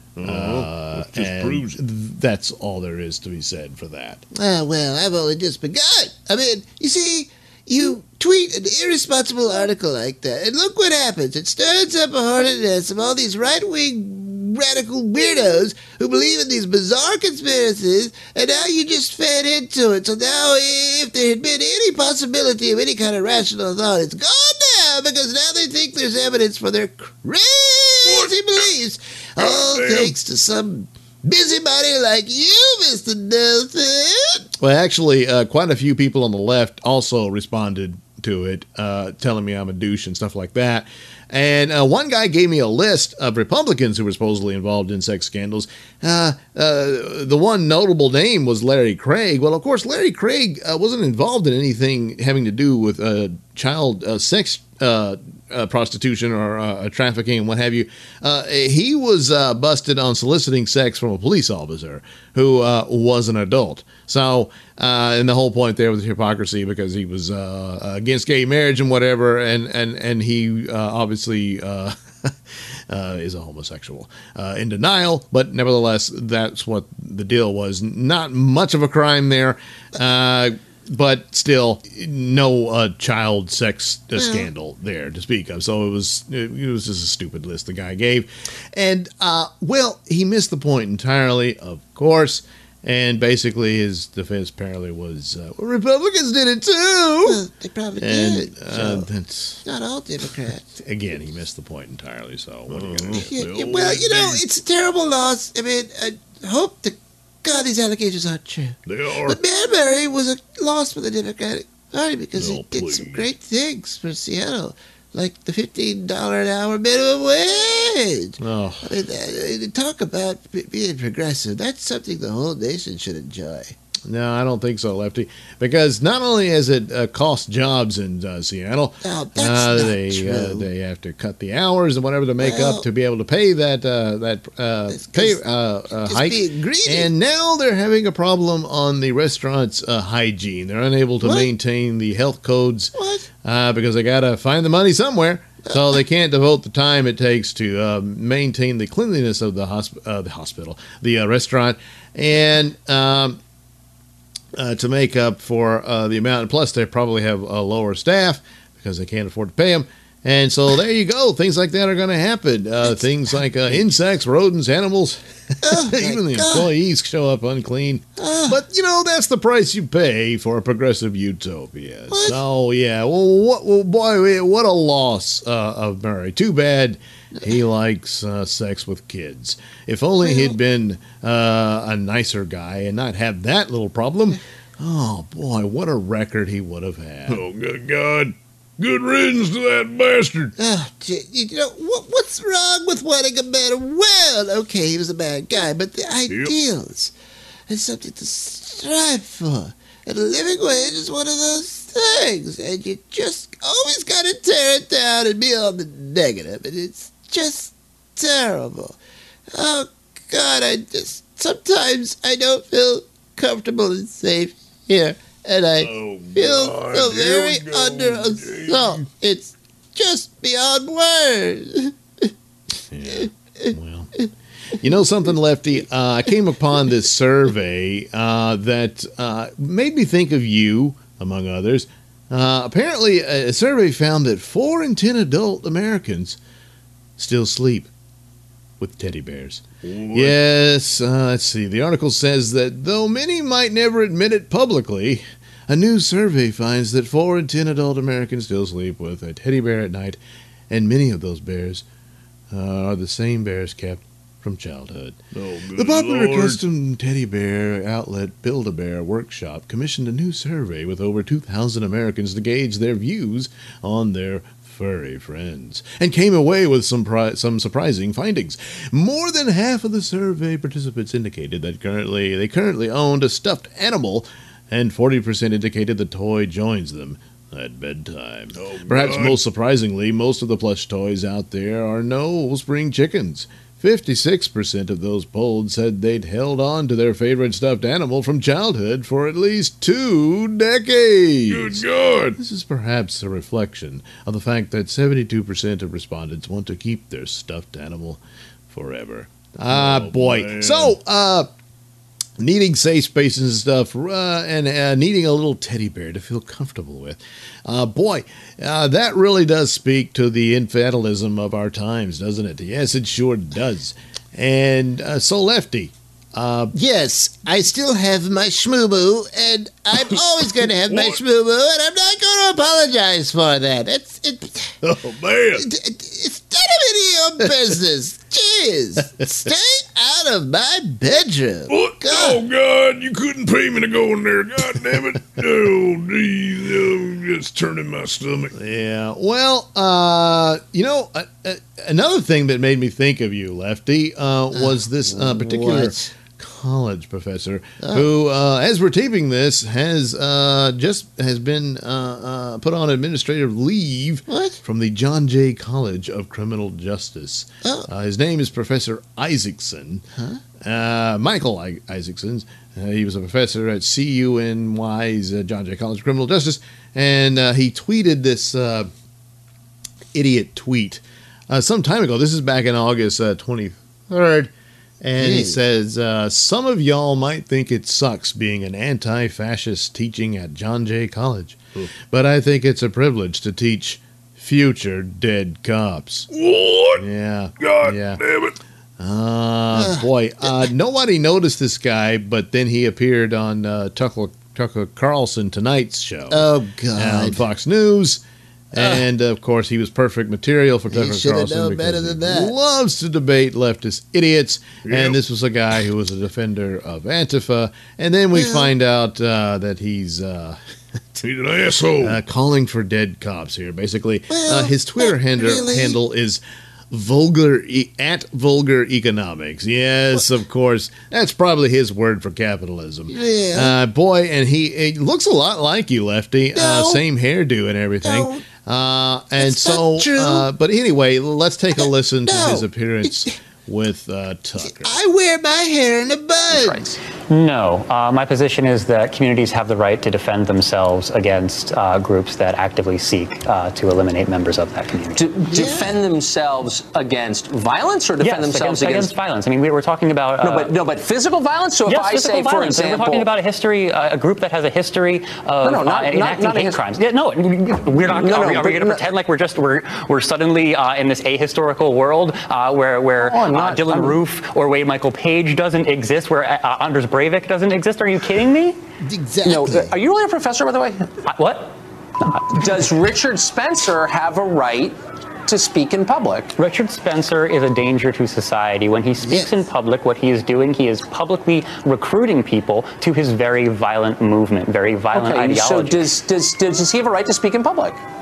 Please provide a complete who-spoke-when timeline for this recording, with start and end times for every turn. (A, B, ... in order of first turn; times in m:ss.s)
0:00.2-0:01.8 A
0:00.2-0:04.2 B
0:04.3-0:34.4 C
0:28.0-0:28.7 A
0:29.4-0:30.2 A
0:34.6-1:12.3 B
1:12.9-1:37.4 B
1:24.2-1:24.5 C
1:37.2-1:39.1 C
1:38.0-1:39.6 B
1:39.6-1:40.6 C
1:40.8-1:43.3 B
1:42.7-1:44.4 A
1:43.2-2:03.7 C
1:48.9-1:49.4 A
1:52.4-1:53.3 A
1:58.4-1:58.9 B
2:04.1-2:33.4 B
2:09.0-2:10.7 C
2:12.4-2:12.8 C
2:14.9-2:17.1 C
2:21.2-2:21.5 C
2:23.0-2:23.3 C
2:25.7-2:26.0 C
2:34.6-3:07.4 B
2:45.6-2:46.7 C
2:48.2-2:48.6 C
2:52.1-2:52.4 C
3:00.2-3:00.6 C
3:07.3-3:10.5 A
3:10.6-3:17.1 C
3:16.3-3:16.5 A
3:17.7-3:29.0 C
3:29.5-3:42.3 C
3:35.8-3:39.1 A
3:42.9-3:44.1 B
3:43.1-3:44.2 C
3:44.8-3:56.4 B
3:57.2-3:57.9 B
3:58.8-4:10.2 B
3:59.8-4:00.4 A
4:10.7-4:11.8 B
4:12.5-4:15.2 B
4:15.3-4:16.6 A
4:15.8-4:51.8 B
4:38.6-4:39.4 A
4:51.5-4:52.4 A
4:52.4-5:01.5 B
4:59.7-5:01.0 A
5:02.4-5:16.8 B
5:16.7-5:24.8 C
5:20.9-5:21.2 A
5:24.8-5:25.7 A
5:25.6-5:32.4 C
5:31.7-5:38.5 A
5:38.6-6:00.0 B
5:44.5-5:46.1 C
5:47.8-5:48.1 C
5:54.3-5:54.6 C
5:57.6-5:57.9 C
6:00.2-6:00.4 C
6:00.6-6:08.9 B
6:10.1-6:26.3 B
6:15.2-6:15.6 C
6:26.3-6:27.0 A
6:27.0-6:28.2 B
6:27.6-6:28.6 A
6:29.0-6:50.6 B
6:29.7-6:30.6 C
6:36.3-6:37.4 C
6:38.7-6:39.1 C
6:40.9-6:42.5 C
6:44.8-6:45.2 A
6:48.3-6:48.7 C
6:51.2-6:52.2 A
6:52.0-7:14.9 B
6:54.3-6:56.0 C
7:03.1-7:03.8 C
7:06.6-7:07.0 C
7:08.0-7:08.4 C
7:09.4-7:10.5 C
7:11.8-7:13.4 C
7:14.6-7:16.8 C
7:16.5-7:17.0 D
7:17.3-7:25.4 E
7:25.2-7:29.1 D
7:25.5-7:25.9 C
7:28.2-7:30.8 E
7:30.4-7:33.3 D
7:31.8-7:48.8 E
7:35.6-7:37.0 D
7:38.0-7:39.0 D
7:43.2-7:44.2 D
7:49.0-7:49.9 C
7:49.4-7:51.1 D
7:51.3-7:51.7 E
7:52.3-7:56.5 D
7:52.3-7:52.8 E
7:56.6-8:06.1 E
7:59.2-7:59.5 C
8:05.1-8:08.0 D